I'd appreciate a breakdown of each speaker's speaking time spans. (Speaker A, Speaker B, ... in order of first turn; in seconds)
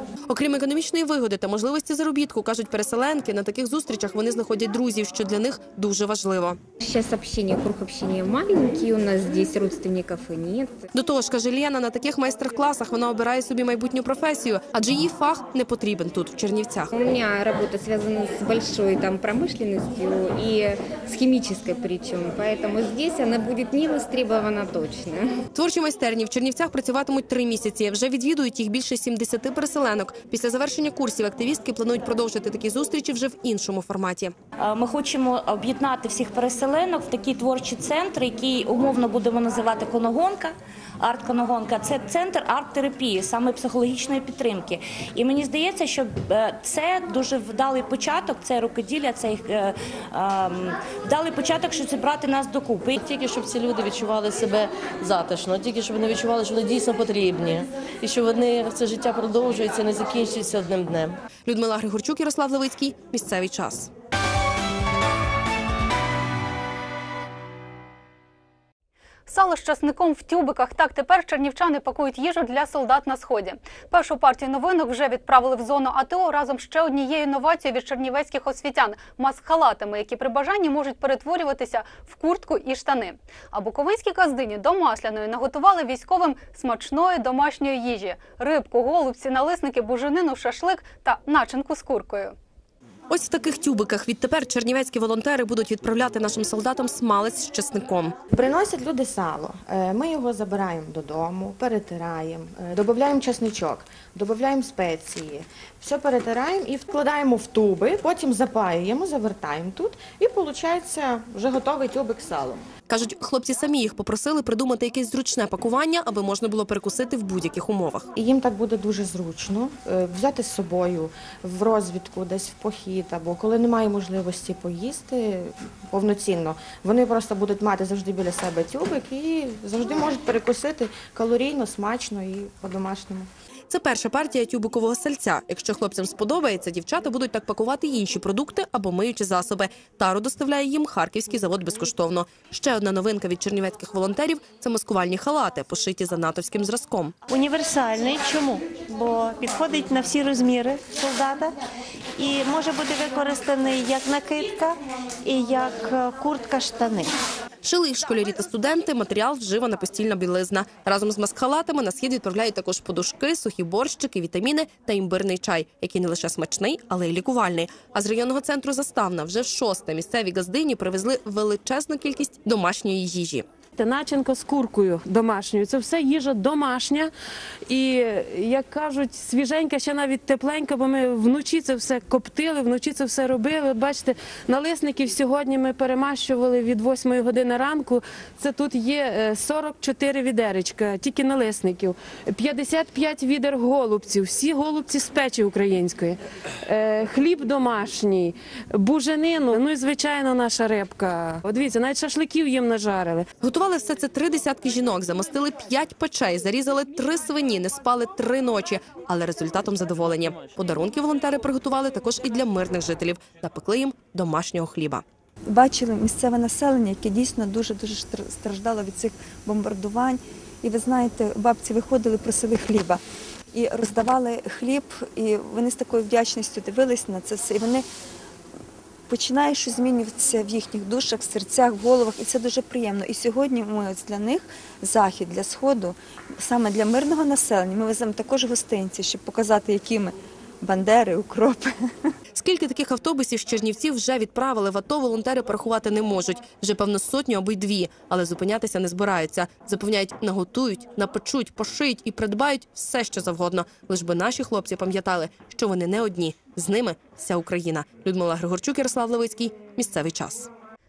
Speaker A: 0.3-6.6, 11.0-16.9, 25.6-34.3, 61.5-63.9, 93.1-98.2, 112.9-118.1, 133.7-147.1, 157.6-173.5, 203.4-215.0, 242.3-260.5
Speaker B: 6.8-10.9, 16.9-25.4
Speaker C: 34.6-52.9
Speaker D: 53.0-61.1
Speaker E: 69.3-92.3
Speaker F: 98.3-112.7, 118.2-133.3
Speaker G: 147.3-151.5, 152.2-157.1
Speaker H: 173.8-177.1, 177.7-196.2, 196.7-203.2
Speaker I: 215.5-223.0, 223.5-227.9, 229.1-241.7